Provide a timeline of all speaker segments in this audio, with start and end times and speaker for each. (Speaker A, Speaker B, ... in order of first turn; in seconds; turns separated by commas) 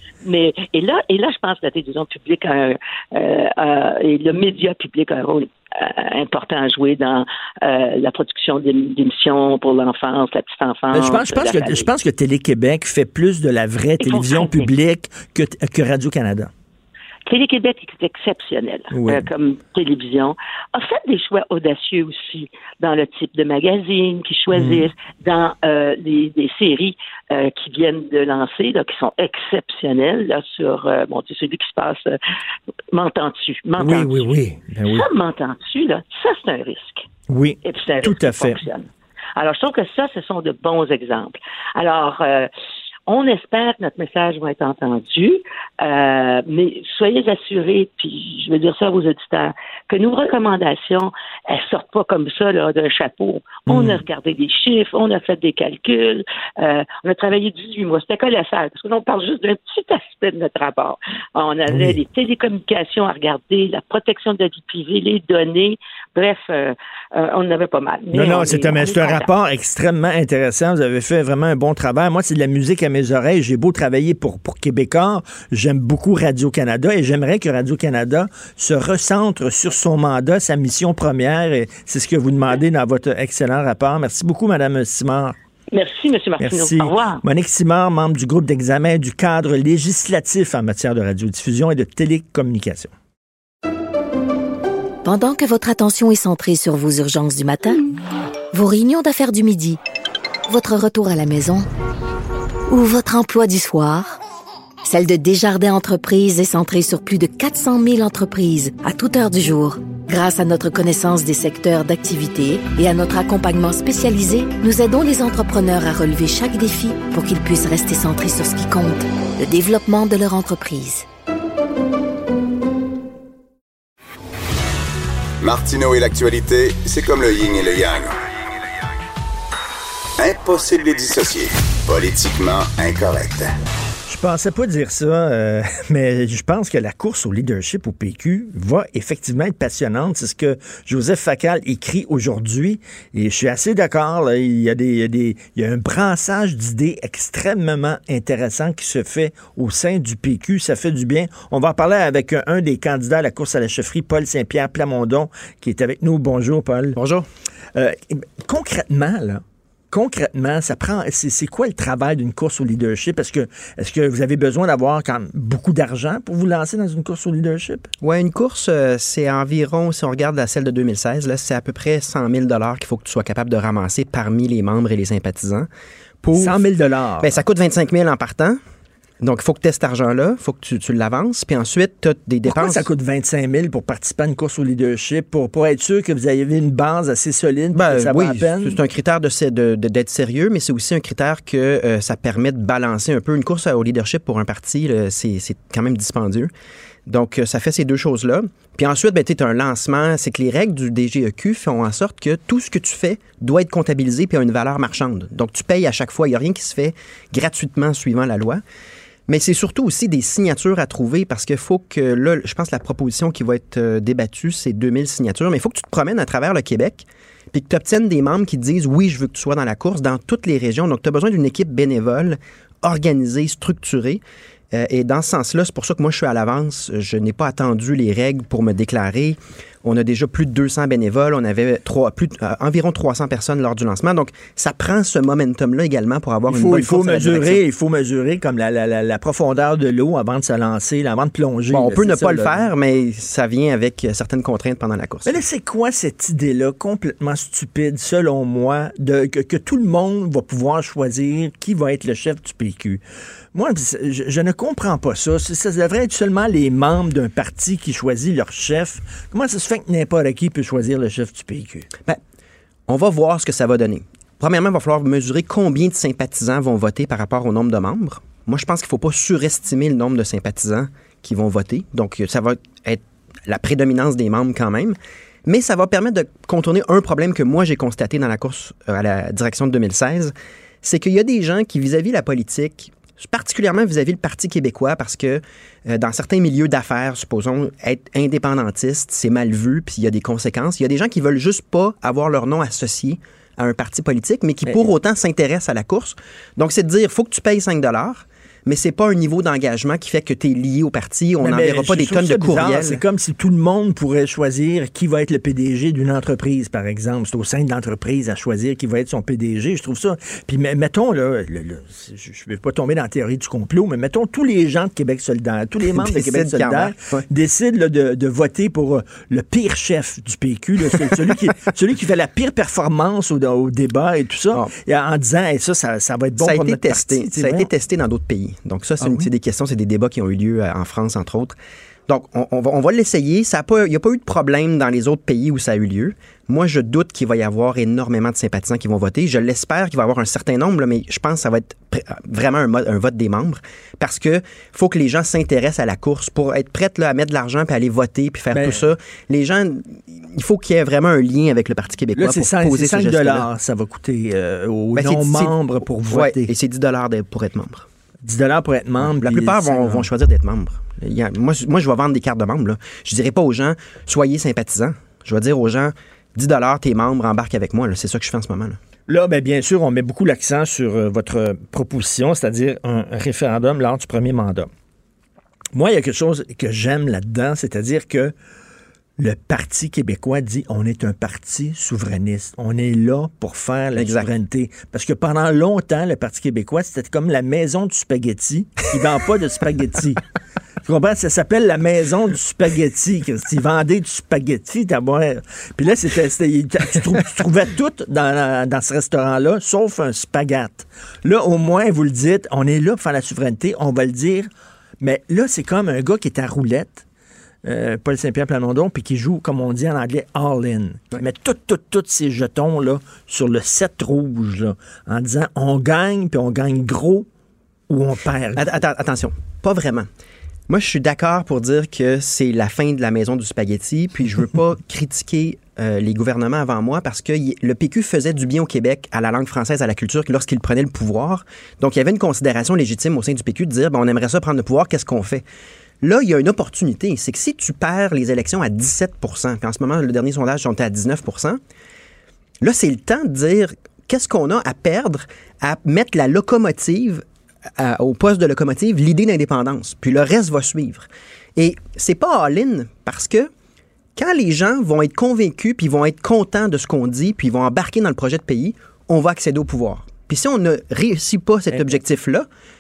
Speaker A: 0.2-11.9, Speaker B: 10.9-16.5, Speaker A: 14.0-14.7, Speaker A: 17.3-32.2, Speaker B: 18.9-19.2, Speaker A: 32.9-34.3, Speaker B: 33.8-35.0, Speaker A: 34.9-37.1, Speaker B: 37.3-38.6, Speaker A: 37.6-42.5, Speaker A: 43.1-69.3, Speaker B: 53.7-54.0, Speaker B: 61.7-62.0, Speaker B: 68.1-85.3, Speaker A: 85.7-87.2, Speaker B: 86.4-92.9, Speaker C: 95.0-97.8, Speaker C: 98.5-99.8, Speaker C: 100.5-101.7, Speaker C: 102.7-104.2, Speaker C: 104.8-121.0, Speaker D: 125.4-128.1, Speaker D: 130.2-133.5, Speaker B: 134.1-157.0, Speaker E: 156.9-157.2, Speaker B: 157.7-167.9, Speaker E: 168.0-175.7, Speaker E: 176.2-176.6, Speaker B: 176.3-177.4, Speaker E: 177.2-178.6, Speaker E: 179.2-182.8, Speaker B: 182.4-188.8, Speaker E: 187.7-196.5, Speaker E: 197.1-208.6, Speaker E: 209.3-237.6, Speaker B: 236.5-242.7, Speaker E: 241.7-245.4, Speaker B: 245.2-253.0, Speaker B: 253.5-261.9, Speaker E: 262.9-303.0, Speaker B: 301.4-327.7, Speaker E: 315.9-317.2, Speaker E: 326.4-331.5, Speaker B: 329.0-329.3, Speaker E: 332.1-353.5, Speaker B: 348.5-348.8, Speaker B: 352.1-356.5, Speaker E: 354.9-355.5, Speaker E: 356.1-357.9, Speaker B: 358.2-360.1, Speaker E: 359.0-368.8, Speaker B: 369.1-374.7, Speaker B: 375.7-378.3, Speaker B: 379.2-390.2, Speaker E: 383.9-384.3, Speaker B: 390.8-404.5, Speaker B: 405.0-407.0, Speaker B: 407.6-417.3, Speaker B: 417.9-418.7, Speaker E: 418.5-420.1, Speaker E: 420.7-435.4, Speaker E: 436.0-441.6, Speaker E: 442.6-447.2, Speaker E: 447.8-453.5, Speaker E: 454.1-462.5, Speaker B: 461.7-462.0